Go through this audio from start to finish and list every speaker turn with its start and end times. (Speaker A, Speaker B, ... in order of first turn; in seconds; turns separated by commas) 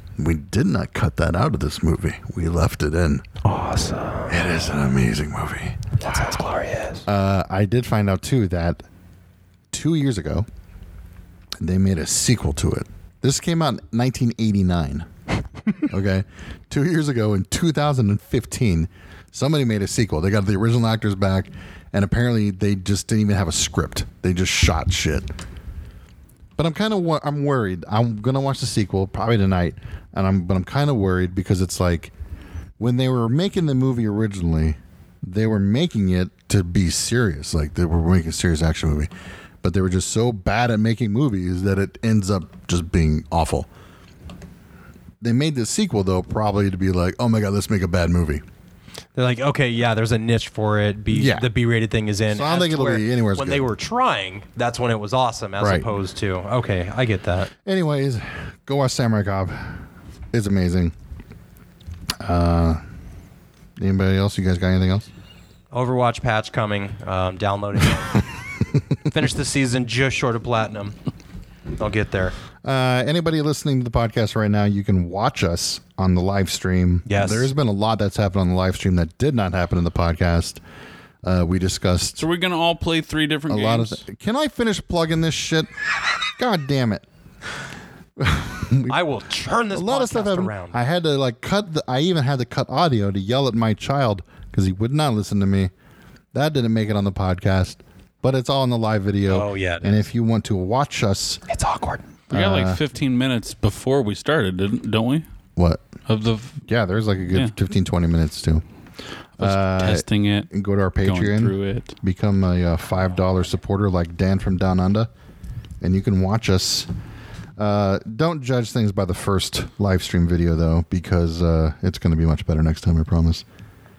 Speaker A: 0.2-3.2, Speaker B: 3.4-4.5, Speaker A: 4.3-6.3, Speaker B: 6.0-7.0, Speaker A: 7.0-8.8, Speaker A: 9.7-10.5, Speaker A: 11.6-15.1, Speaker A: 15.8-25.3, Speaker A: 26.6-32.1, Speaker A: 32.8-39.1, Speaker A: 39.6-43.7, Speaker A: 45.2-48.4, Speaker B: 49.1-57.5, Speaker A: 51.1-51.5, Speaker A: 52.3-53.7, Speaker A: 55.6-55.9, Speaker A: 57.6-60.9, Speaker A: 62.2-62.8, Speaker A: 63.8-65.1, Speaker B: 65.7-68.2, Speaker B: 69.0-71.0, Speaker B: 71.8-72.3, Speaker A: 72.6-80.6, Speaker B: 77.0-77.5, Speaker A: 81.2-82.2, Speaker C: 82.2-84.0, Speaker A: 83.5-85.7, Speaker A: 86.4-87.0, Speaker A: 88.2-89.0, Speaker B: 88.9-90.8, Speaker A: 89.7-95.7, Speaker A: 96.3-101.4, Speaker B: 99.3-100.0, Speaker B: 101.5-102.0, Speaker A: 102.3-102.8, Speaker C: 102.3-105.2, Speaker A: 105.5-105.8, Speaker C: 106.0-106.6, Speaker A: 106.7-108.6, Speaker C: 109.4-110.5, Speaker A: 109.4-115.1, Speaker C: 111.0-111.9, Speaker A: 115.8-116.9, Speaker A: 117.6-123.4